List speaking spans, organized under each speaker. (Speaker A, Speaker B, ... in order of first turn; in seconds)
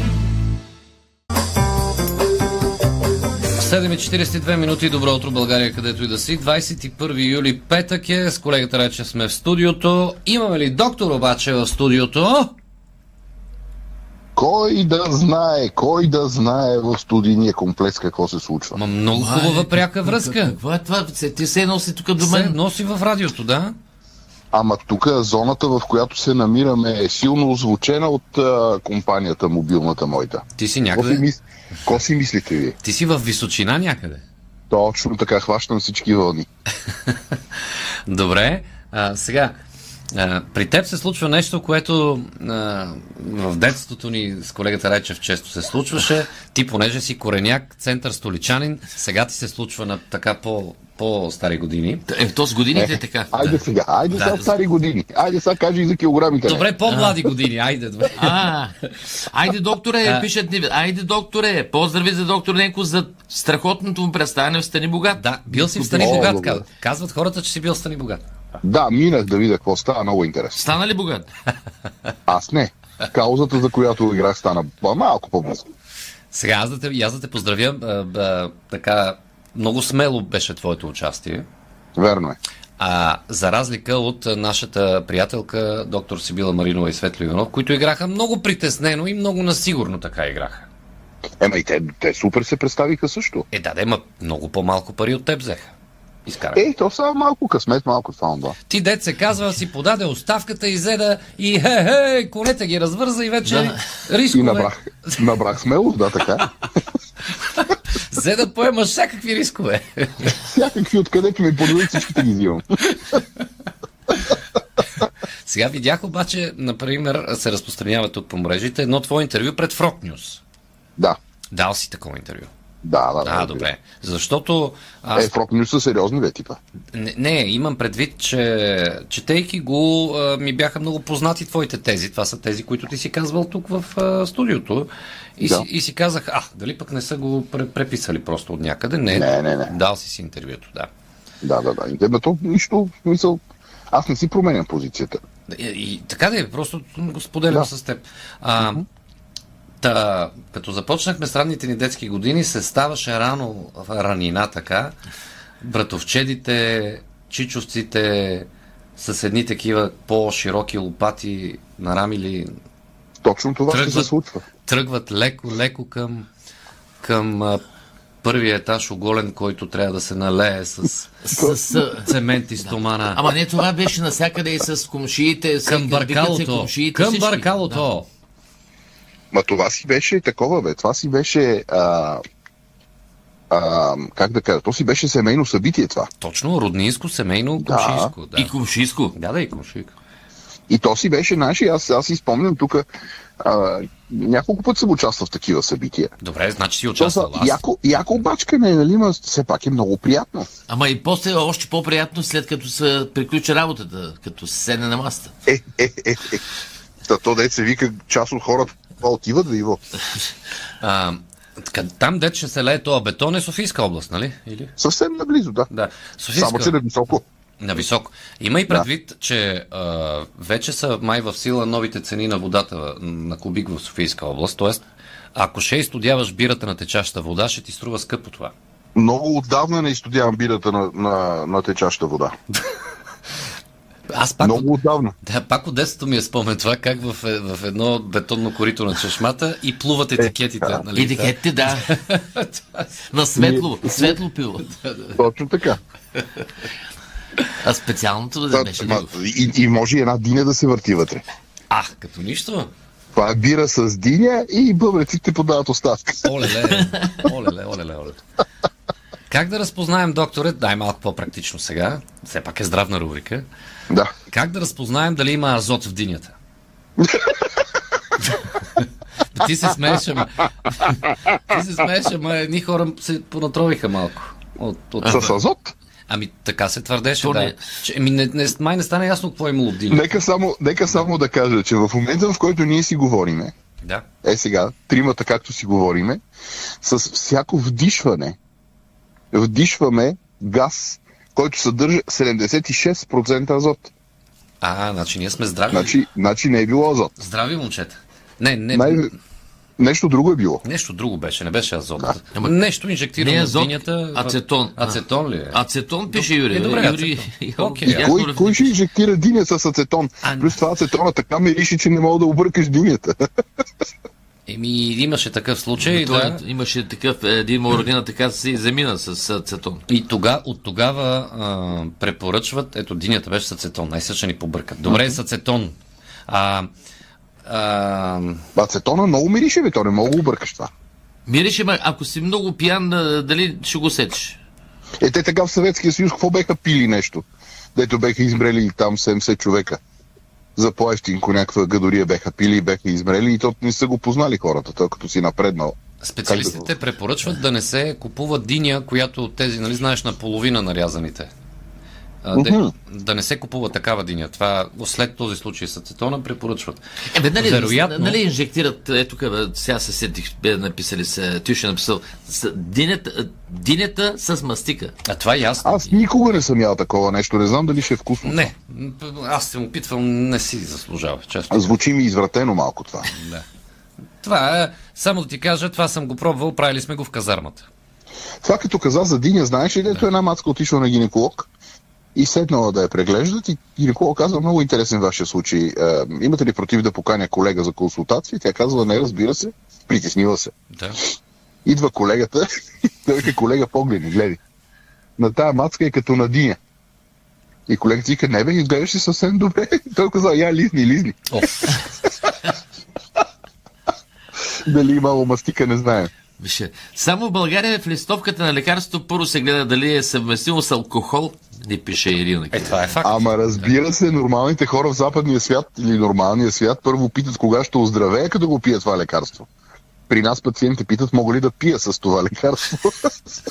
Speaker A: 3.5-12.5, 18.7-20.6, 22.2-23.7, 30.6-31.2, 32.8-34.2, 38.1-39.5, 40.1-52.0, 56.4-58.3, 65.2-68.2, 76.3-81.4, 82.8-90.7, 93.5-95.7, 96.2-96.6, 98.7-105.3, 107.5-110.4, 115.4-120.4, 121.5-122.5, 123.2-125.3, 126.9-140.9, 145.5-148.8, 149.8-154.9, 155.6-162.5, 163.7-164.1, 164.6-166.3, 167.0-167.6, 168.2-171.2, 172.0-173.2, 175.6-178.1, 186.2-188.5, 189.1-189.9, 196.2-198.2, 210.8-214.7, 215.7-216.8, 217.6-224.8, 225.3-228.5, 234.1-242.9, 244.8-245.1, 251.7-252.7, 256.2-258.2, 259.3-263.4, 264.3-266.3, 269.3-275.3, 276.1-280.1, 294.6-296.0, 297.2-299.1, 300.6-308.1, 310.2-310.5, 314.5-316.4, 319.9-325.8, 326.3-326.7, 327.4-328.4, 346.0-351.3, 352.2-356.8, 357.4-358.2, 365.0-365.8, 368.2-371.8, 373.1-373.4, 374.2-377.7, 390.7-391.0, 401.3-401.7, 412.5-413.7
Speaker B: 14.3-18.8, 24.5-32.8, 34.7-36.5, 52.8-56.6, 65.9-66.6, 68.6-70.6, 72.3-75.6, 82.0-82.4, 91.4-93.4, 96.5-98.5, 104.3-106.5, 110.4-112.6, 122.8-123.7, 125.1-126.6, 135.4-135.7, 139.1-139.7, 141.4-145.2, 148.6-148.8, 163.2-164.4, 171.3-171.6, 179.3-182.2, 183.5-186.1, 187.6-188.1, 190.7-192.8, 193.4-196.1, 197.0-200.5, 205.4-206.4, 207.1-209.8, 214.8-215.7, 216.3-217.2, 228.9-232.3, 234.4-235.1, 240.2-240.8, 243.3-244.2, 245.1-245.8, 248.5-251.2, 253.1-256.4, 267.0-267.5, 275.0-275.7, 279.9-283.5, 284.2-286.2, 286.8-288.4, 289.3-293.9, 295.7-297.1, 298.7-299.1, 299.8-300.6, 307.9-313.1, 324.9-325.1, 328.5-330.7, 335.0-339.8, 340.6-346.7, 352.3-352.7, 365.6-368.5, 371.5-373.1, 378.4-381.5, 382.1-390.5, 391.6-392.5, 393.0-394.4, 395.2-396.6, 397.7-401.7, 404.6-406.1, 413.0-419.5, 420.1-423.1
Speaker C: 19.1-22.6, 52.1-53.6, 54.1-54.5, 56.9-57.2, 58.2-66.3, 70.5-71.3, 171.2-177.9, 188.3-189.1, 200.7-205.3, 240.9-242.0, 243.1-244.7, 247.6-249.1, 256.8-257.1, 275.0-275.3, 277.2-277.6, 303.2-305.0, 305.5-308.7, 315.8-319.8, 331.2-334.4, 357.1-364.9, 406.4-412.8